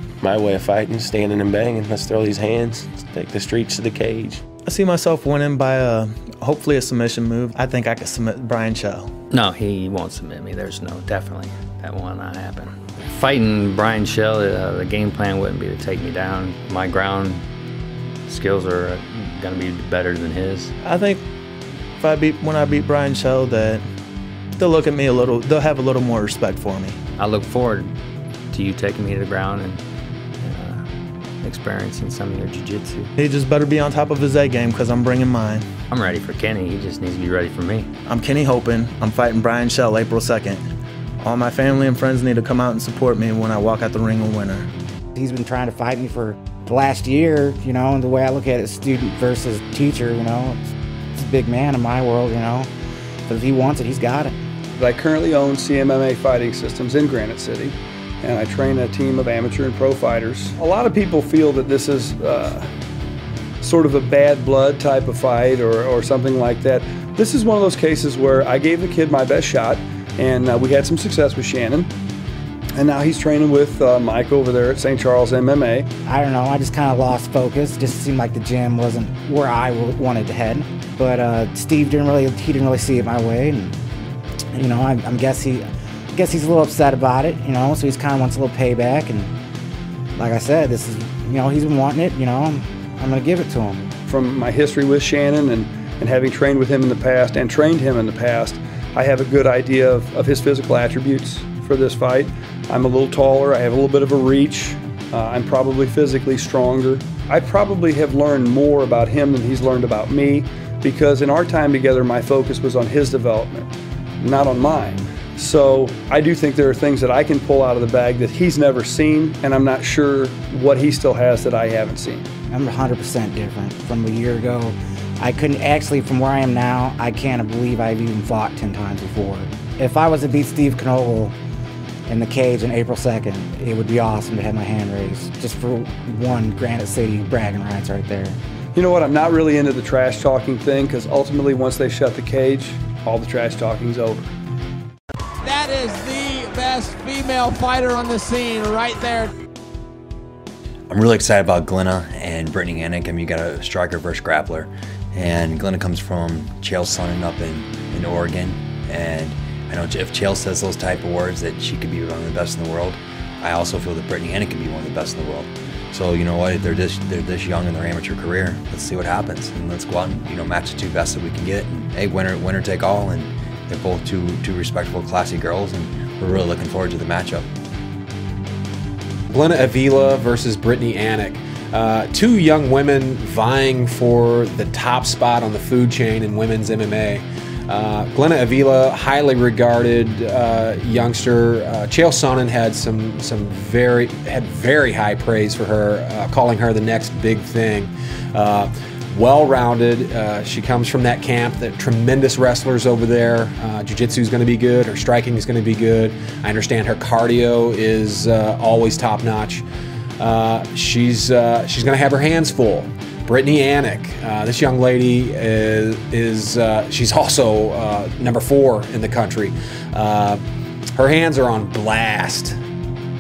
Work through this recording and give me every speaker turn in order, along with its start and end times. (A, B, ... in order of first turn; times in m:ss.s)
0:00.2-0:04.5 A
0:04.6-0:09.1 B
0:09.5-0:12.5 C
0:13.2-0:17.4 C
0:18.3-0:20.6 C
0:20.8-0:21.2 B
0:22.0-0:23.9 B
0:24.6-0:27.0 B
0:27.3-0:27.8 C
0:28.5-0:29.8 C
0:31.5-0:32.7 C
0:33.2-0:35.7 B
0:36.1-0:37.8 C
0:38.0-0:40.7 B
0:41.2-0:44.7 B
0:45.2-0:52.7 D
0:53.3-0:54.4 D
0:54.8-1:02.7 E
1:03.6-1:11.9 E
1:12.8-1:15.8 E
1:16.1-1:23.7 D
1:24.5-1:29.3 D
1:30.2-1:33.9 D
1:34.1-1:53.7 E
1:54.2-2:02.2 E
2:02.5-2:11.3 D
2:12.1-2:18.4 D
2:18.7-2:24.3 E
2:25.4-2:29.3 F
2:30.9-2:57.5 G
2:59.3-3:29.6 H
3:30.2-3:40.4 H
3:41.0-3:42.6 H